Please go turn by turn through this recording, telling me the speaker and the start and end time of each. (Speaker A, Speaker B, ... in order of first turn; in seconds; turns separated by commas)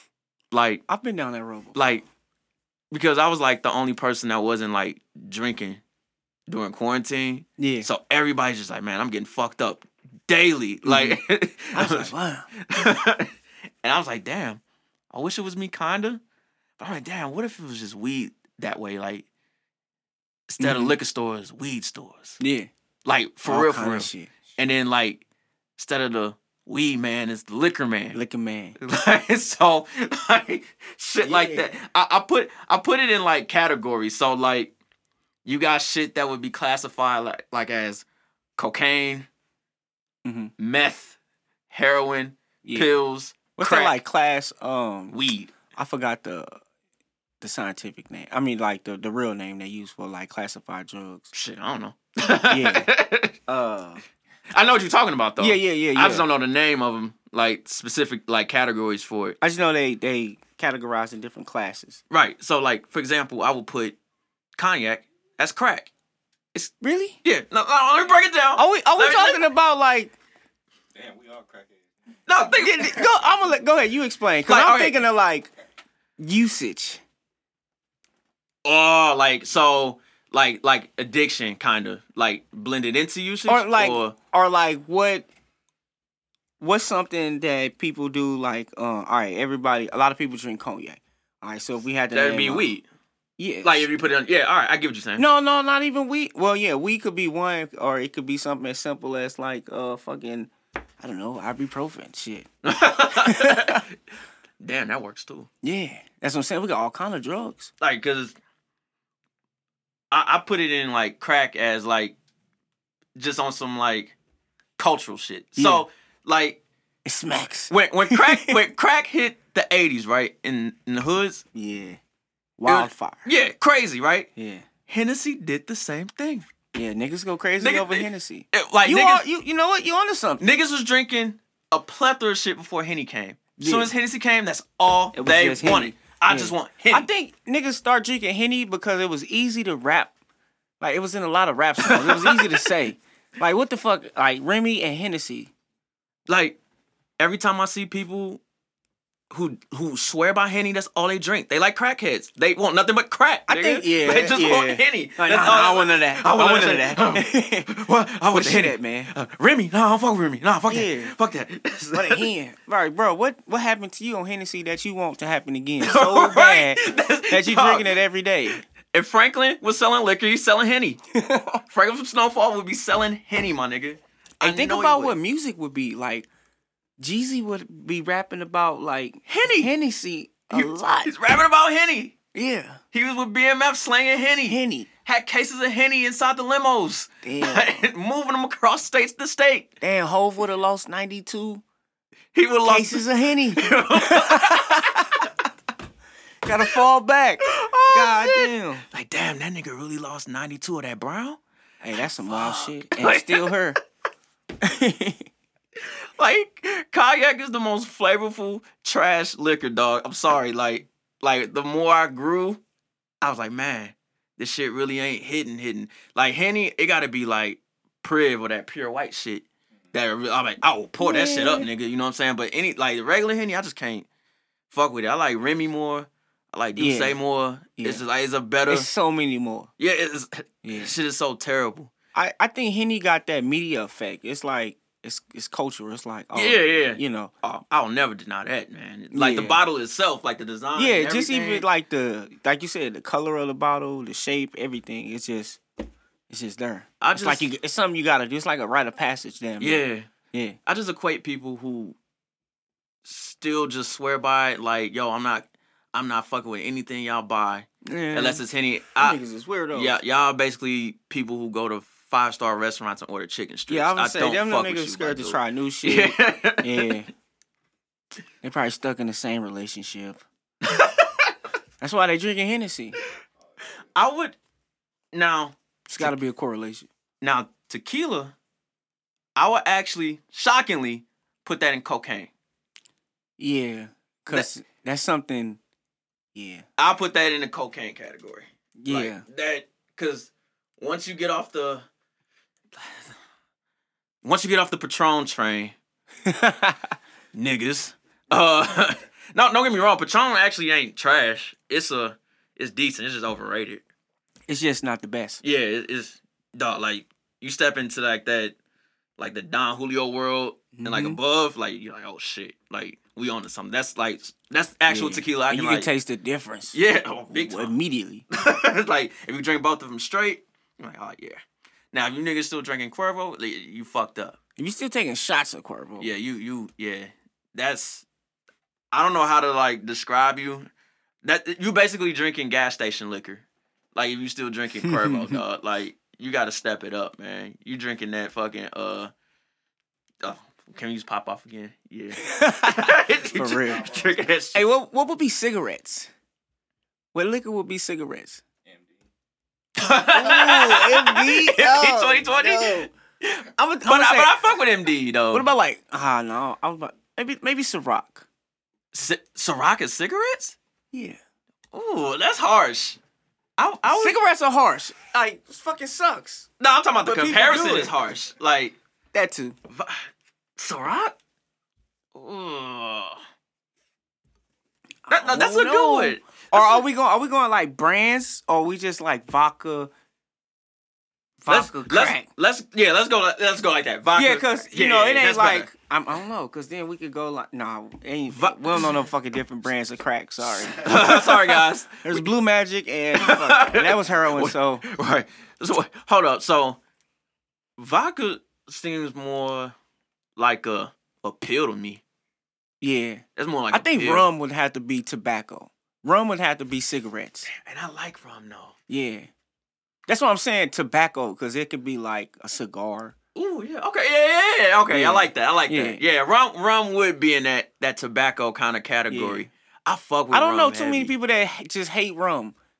Speaker A: 0.5-0.8, Speaker B: 0.9-1.8, Speaker A: 1.7-2.0, Speaker A: 2.9-5.8, Speaker A: 6.5-13.3, Speaker B: 7.6-7.9, Speaker B: 10.8-11.2, Speaker B: 11.7-12.5, Speaker A: 13.8-14.6, Speaker A: 15.1-16.2, Speaker A: 16.8-19.3, Speaker A: 20.5-22.4, Speaker B: 20.6-20.9, Speaker B: 22.4-22.7, Speaker A: 23.1-25.2, Speaker B: 23.4-24.3, Speaker A: 25.8-28.2, Speaker B: 28.1-28.8, Speaker A: 28.8-34.7, Speaker B: 31.2-31.7, Speaker A: 35.5-38.0, Speaker A: 38.6-39.3, Speaker B: 40.2-40.5, Speaker A: 40.6-41.2, Speaker A: 41.7-44.0, Speaker B: 42.6-43.0, Speaker B: 43.6-45.2, Speaker A: 45.1-45.5, Speaker B: 45.7-46.6, Speaker B: 47.4-51.3, Speaker A: 51.3-53.3, Speaker B: 52.5-52.9, Speaker B: 53.5-54.0, Speaker A: 54.5-59.4, Speaker B: 55.4-56.3, Speaker B: 59.4-62.0, Speaker A: 62.1-64.0, Speaker A: 64.6-65.9, Speaker B: 66.8-67.2, Speaker A: 67.2-69.4, Speaker B: 68.6-70.2, Speaker C: 71.0-72.2, Speaker A: 72.3-73.0, Speaker B: 72.6-75.5, Speaker A: 74.5-75.0, Speaker B: 76.2-77.0, Speaker A: 78.7-84.2, Speaker B: 83.5-85.3, Speaker B: 86.6-92.7, Speaker A: 92.1-92.8, Speaker B: 93.4-93.9, Speaker A: 93.6-95.2, Speaker B: 95.2-102.5, Speaker A: 102.6-103.9, Speaker B: 103.1-103.8, Speaker A: 104.6-105.5, Speaker B: 105.6-107.7, Speaker A: 107.8-108.4, Speaker A: 110.1-112.2, Speaker A: 113.2-114.2, Speaker A: 114.8-116.6, Speaker B: 115.6-115.9, Speaker B: 117.0-118.6, Speaker A: 117.7-121.4, Speaker B: 121.5-122.0, Speaker B: 122.6-123.3, Speaker A: 122.7-124.3, Speaker B: 124.4-124.7, Speaker A: 124.9-126.5, Speaker B: 126.7-130.4, Speaker A: 127.6-129.2, Speaker A: 130.4-137.1, Speaker B: 133.6-133.9, Speaker B: 135.1-140.1, Speaker B: 140.8-145.5, Speaker A: 141.8-142.5, Speaker A: 146.3-146.6, Speaker A: 147.2-148.4, Speaker A: 149.3-162.2, Speaker B: 153.5-157.7, Speaker B: 158.3-159.1, Speaker B: 160.7-161.2, Speaker B: 161.9-168.7, Speaker A: 165.8-167.9, Speaker A: 168.5-171.0, Speaker B: 171.1-171.6, Speaker A: 171.7-175.2, Speaker B: 174.4-176.3, Speaker B: 177.0-181.1, Speaker A: 179.3-179.7, Speaker A: 180.5-182.2, Speaker B: 182.3-182.8, Speaker A: 182.9-189.7, Speaker B: 184.5-184.9, Speaker B: 187.2-187.9, Speaker B: 189.8-191.6, Speaker A: 192.3-193.0, Speaker B: 192.6-195.3, Speaker A: 193.6-195.2, Speaker B: 196.4-198.9, Speaker A: 197.5-201.4, Speaker B: 201.8-203.8, Speaker A: 202.0-203.5, Speaker B: 204.6-205.3, Speaker A: 205.8-212.6, Speaker A: 213.2-224.1, Speaker B: 221.0-221.7, Speaker A: 224.7-228.9, Speaker B: 226.8-227.2, Speaker B: 227.8-228.0, Speaker B: 228.7-229.7, Speaker A: 229.8-231.9, Speaker B: 230.6-230.9, Speaker B: 232.1-237.3, Speaker A: 236.3-241.7, Speaker B: 239.1-239.6, Speaker B: 240.8-245.6, Speaker B: 246.3-250.6, Speaker A: 247.0-247.5, Speaker A: 249.6-250.1, Speaker A: 250.7-252.0, Speaker A: 253.1-259.2, Speaker B: 257.8-258.4, Speaker B: 259.0-260.0, Speaker A: 259.7-266.9, Speaker B: 263.7-267.1, Speaker B: 268.4-270.2, Speaker A: 270.6-271.4, Speaker B: 271.8-273.0, Speaker A: 273.9-274.4, Speaker A: 275.1-276.2, Speaker B: 275.9-276.9, Speaker A: 277.2-278.3, Speaker A: 279.4-282.3, Speaker B: 283.4-285.6, Speaker B: 286.4-286.6, Speaker A: 286.8-291.9, Speaker B: 288.8-289.2, Speaker A: 292.8-293.1, Speaker A: 294.2-295.8, Speaker B: 296.2-296.9, Speaker A: 297.3-303.8, Speaker B: 304.5-305.4, Speaker A: 305.4-308.6, Speaker A: 309.2-315.9, Speaker B: 310.8-311.2, Speaker B: 314.9-316.8, Speaker A: 316.7-317.8, Speaker B: 317.3-318.2, Speaker A: 318.3-321.4, Speaker A: 321.9-324.4, Speaker B: 324.6-326.1, Speaker A: 326.0-328.1, Speaker A: 328.9-330.7, Speaker A: 331.2-339.1, Speaker B: 334.8-335.4, Speaker A: 340.2-344.6, Speaker B: 342.2-343.9, Speaker C: 343.8-344.2, Speaker B: 344.5-346.1, Speaker B: 347.1-348.4, Speaker C: 348.7-349.1, Speaker A: 349.8-355.5, Speaker B: 350.1-352.9, Speaker B: 353.6-354.4, Speaker B: 355.3-358.3, Speaker A: 358.9-360.6, Speaker B: 360.9-361.2, Speaker A: 361.7-363.0, Speaker A: 363.6-364.2, Speaker B: 363.9-366.5, Speaker A: 366.6-368.8, Speaker B: 367.0-367.9, Speaker B: 369.1-369.6, Speaker A: 369.7-370.1, Speaker A: 370.6-371.2, Speaker A: 372.1-373.2, Speaker B: 375.1-379.9, Speaker A: 375.1-376.9, Speaker B: 381.4-382.3, Speaker A: 381.5-385.7, Speaker B: 384.2-394.9, Speaker A: 388.3-389.1, Speaker A: 390.8-392.3, Speaker A: 393.1-396.8, Speaker A: 397.8-399.7, Speaker A: 400.4-402.0, Speaker B: 402.8-407.5, Speaker A: 403.4-404.3, Speaker A: 407.5-408.8, Speaker B: 408.9-409.3, Speaker B: 410.1-413.1, Speaker A: 413.4-421.1, Speaker B: 414.9-416.0, Speaker B: 419.1-419.5, Speaker B: 420.3-422.6